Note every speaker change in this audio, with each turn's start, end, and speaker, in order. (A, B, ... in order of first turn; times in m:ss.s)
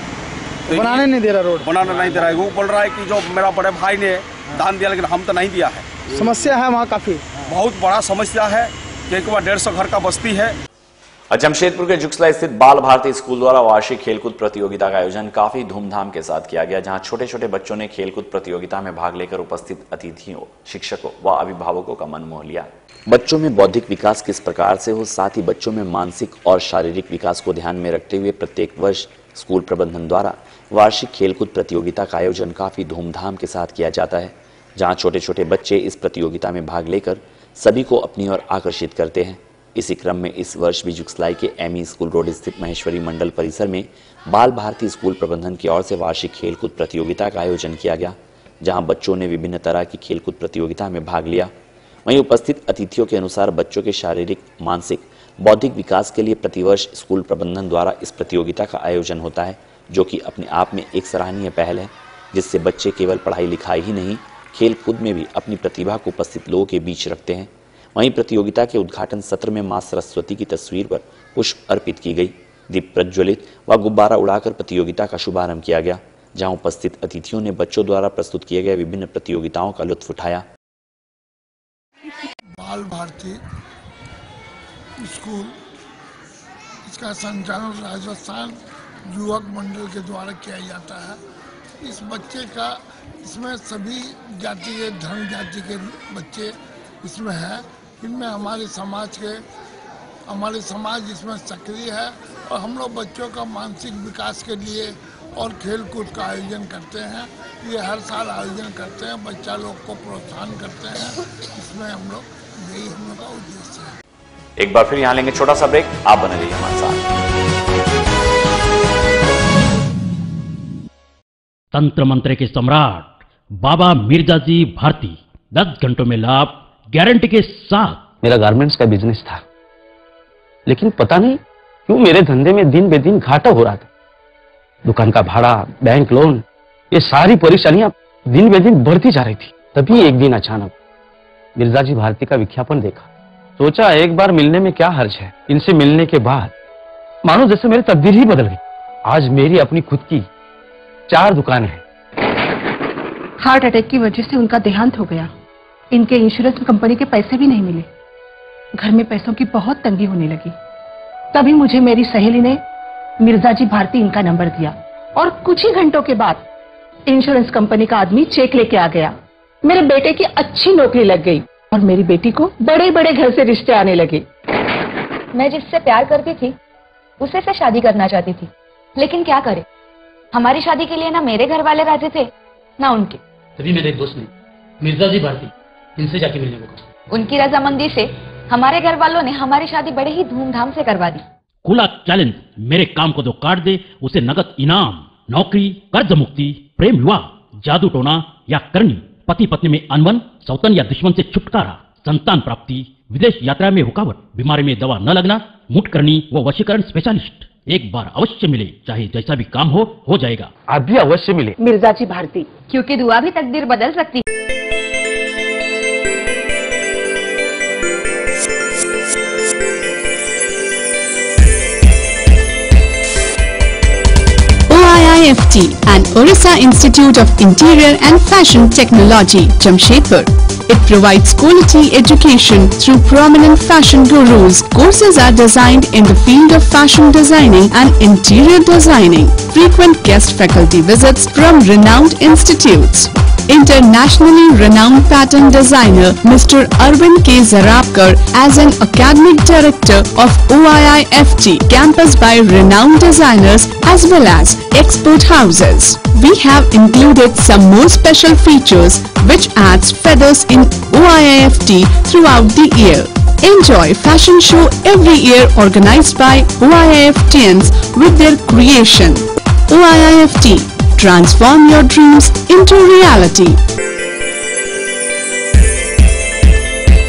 0:00.7-0:01.8 A
0:00.7-0:01.0 B
0:01.6-0:05.8 B
0:06.1-0:07.4 A
0:07.5-0:10.5 B
0:11.3-0:51.5 C
0:52.0-1:20.4 C
1:22.5-1:23.4 D
1:25.0-1:25.5 D
1:26.9-1:31.2 D
1:31.8-1:39.4 D
1:40.3-1:53.9 D
1:54.6-1:57.0 C
2:01.7-2:08.1 E
2:08.2-2:09.4 F
2:10.6-2:13.9 F
2:14.8-2:20.7 F
2:21.6-2:23.1 F
2:23.6-2:26.5 F
2:27.2-2:30.2 F
2:31.1-2:31.8 F
2:33.4-2:35.3 G
2:35.9-2:37.9 G
2:38.8-2:40.6 G
2:41.3-2:42.6 G
2:43.2-2:46.4 G
2:47.1-2:54.3 G
2:55.3-2:56.5 H
2:57.2-2:59.6 H
3:00.3-3:03.2 H
3:03.6-3:04.3 E
3:04.8-3:06.8 E
3:07.1-3:11.2 H
3:11.6-3:30.5 E
3:30.7-3:31.6 F
3:31.6-3:32.6 G
3:32.6-3:34.2 H
3:44.7-4:33.6 I